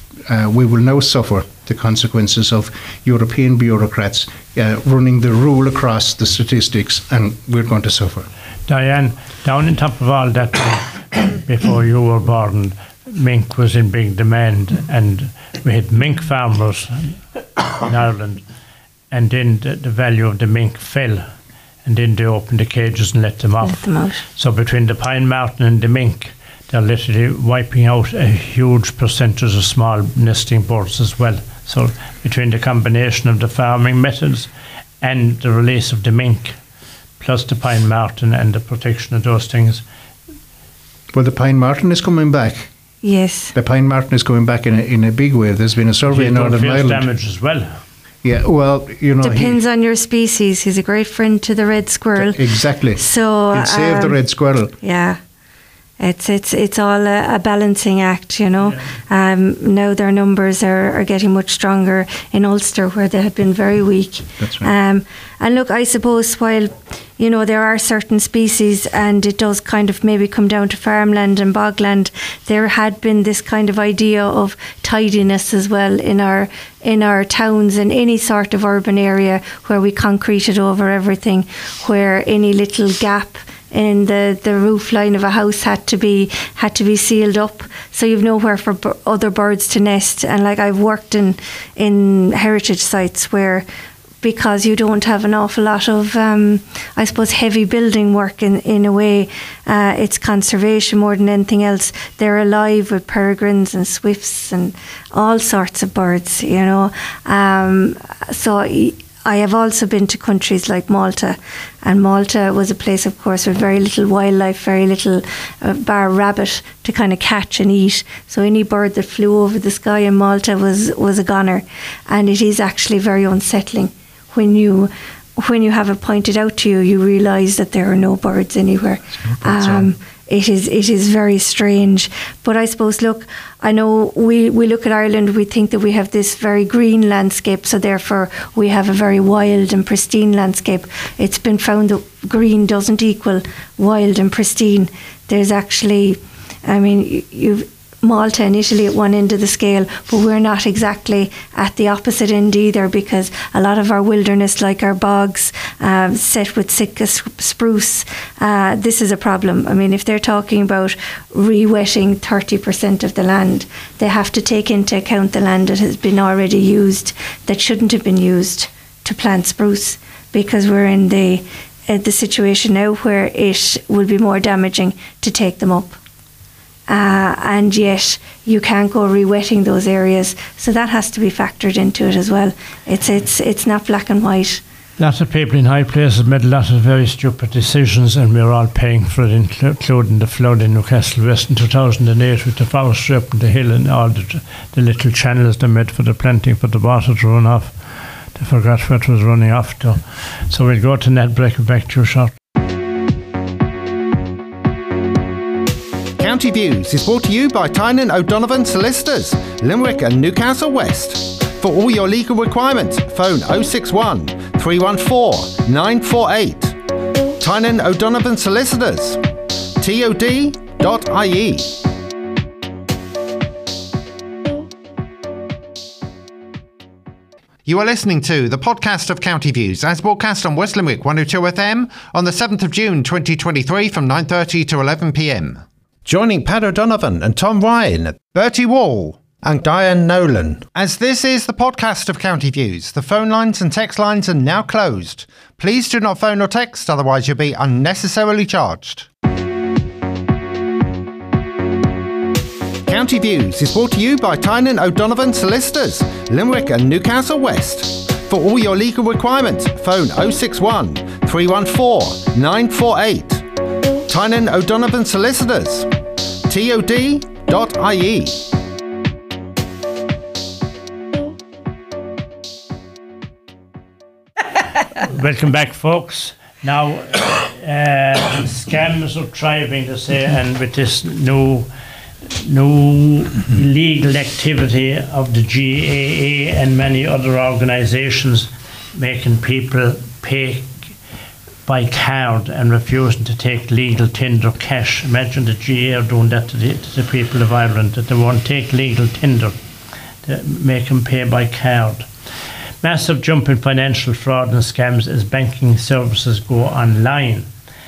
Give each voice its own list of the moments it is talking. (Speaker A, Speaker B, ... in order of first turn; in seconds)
Speaker A: 0.3-8.3, 41.1-42.7, 43.5-47.1, 48.2-49.6, 52.2-54.8, 64.4-64.7, 129.3-129.9
Speaker B: 8.7-17.2, 17.7-18.4, 19.1-21.3, 21.9-34.5, 35.0-36.6, 37.2-39.8, 46.1-47.7, 185.0-197.8, 198.3-202.3, 275.0-281.7, 282.3-290.7, 291.7-299.6, 300.2-302.1, 302.8-307.5
Speaker C: 23.6-24.2, 43.0-43.5, 49.2-52.4, 53.0-54.2, 54.8-55.2, 56.0-93.7, 94.2-176.0, 176.9-184.6
Speaker D: 206.2-216.8, 217.4-219.2, 219.8-221.8, 227.7-249.1, 252.9-263.4, 264.1-265.9, 266.5-268.4